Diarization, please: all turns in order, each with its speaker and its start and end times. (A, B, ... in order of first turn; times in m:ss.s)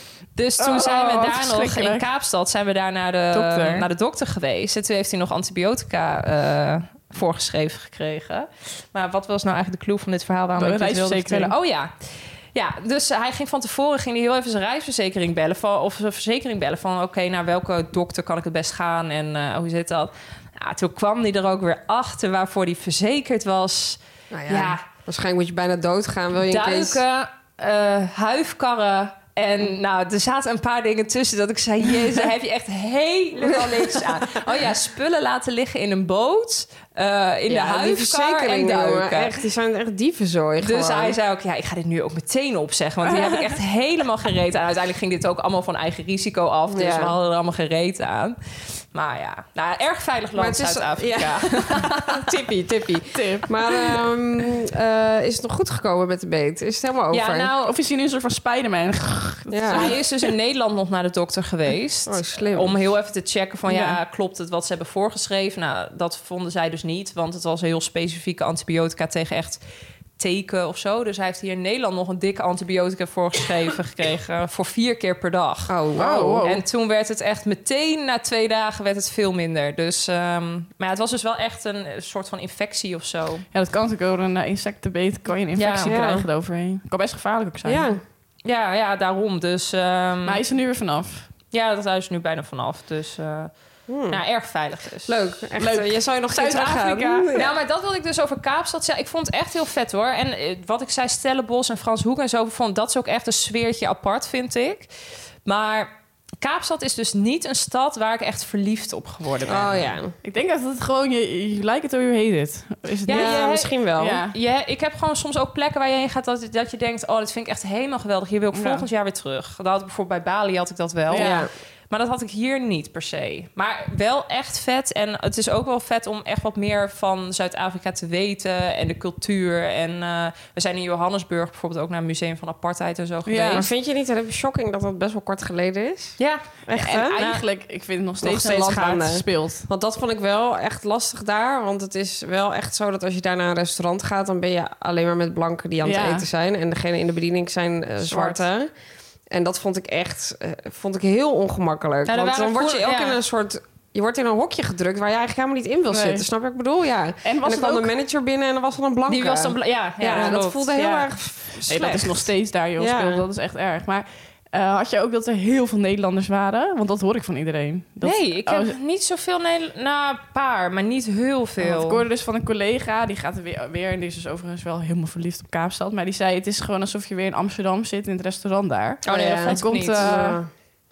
0:00.4-0:11.9 A
0:00.6-0:02.0 B
0:03.3-0:03.9 B
0:10.6-0:11.5 B
0:12.5-0:24.8 A
0:24.3-0:27.0 C
0:26.5-0:39.3 A
0:33.4-0:34.3 C
0:37.5-0:41.2 C
0:40.6-0:48.4 A
0:46.7-0:47.1 C
0:48.9-0:52.3 A
0:50.3-0:57.5 C
0:53.1-0:53.8 B
0:57.1-0:57.7 A
0:57.6-1:00.0 B
0:59.5-0:59.9 C
0:59.7-1:09.6 A
1:02.0-1:02.8 C
1:03.7-1:04.0 B
1:10.2-1:15.8 A
1:15.7-1:16.4 C
1:16.0-1:16.6 B
1:16.4-1:23.4 A
1:23.5-1:27.9 B
1:25.6-1:26.0 A
1:25.8-1:26.2 C
1:27.6-1:28.0 C
1:28.4-1:30.4 A
1:30.2-1:31.3 B
1:31.5-1:33.5 A
1:33.9-1:34.2 C
1:34.1-1:35.2 A
1:35.0-1:37.5 C
1:35.6-1:37.3 B
1:37.3-1:44.9 A
1:45.4-1:45.9 A
1:46.4-1:49.9 A
1:49.4-1:50.1 C
1:50.2-1:54.3 B
1:53.0-1:53.8 A
1:53.1-1:54.2 C
1:54.3-2:13.7 A
1:58.5-1:58.8 B
2:01.1-2:01.4 B
2:01.1-2:01.5 C
2:13.2-2:13.7 B
2:13.5-2:17.2 C
2:16.2-2:17.4 A
2:16.7-2:19.7 B
2:18.2-2:28.7 C
2:25.8-2:26.2 B
2:28.0-2:28.4 B
2:29.3-2:43.2 C
2:32.0-2:33.2 A
2:35.9-2:36.3 B
2:37.2-2:37.9 B
2:39.1-2:41.1 A
2:41.7-2:48.7 B
2:48.0-2:52.0 A
2:51.6-3:00.4 B
2:59.0-3:00.2 A
2:59.0-3:00.5 C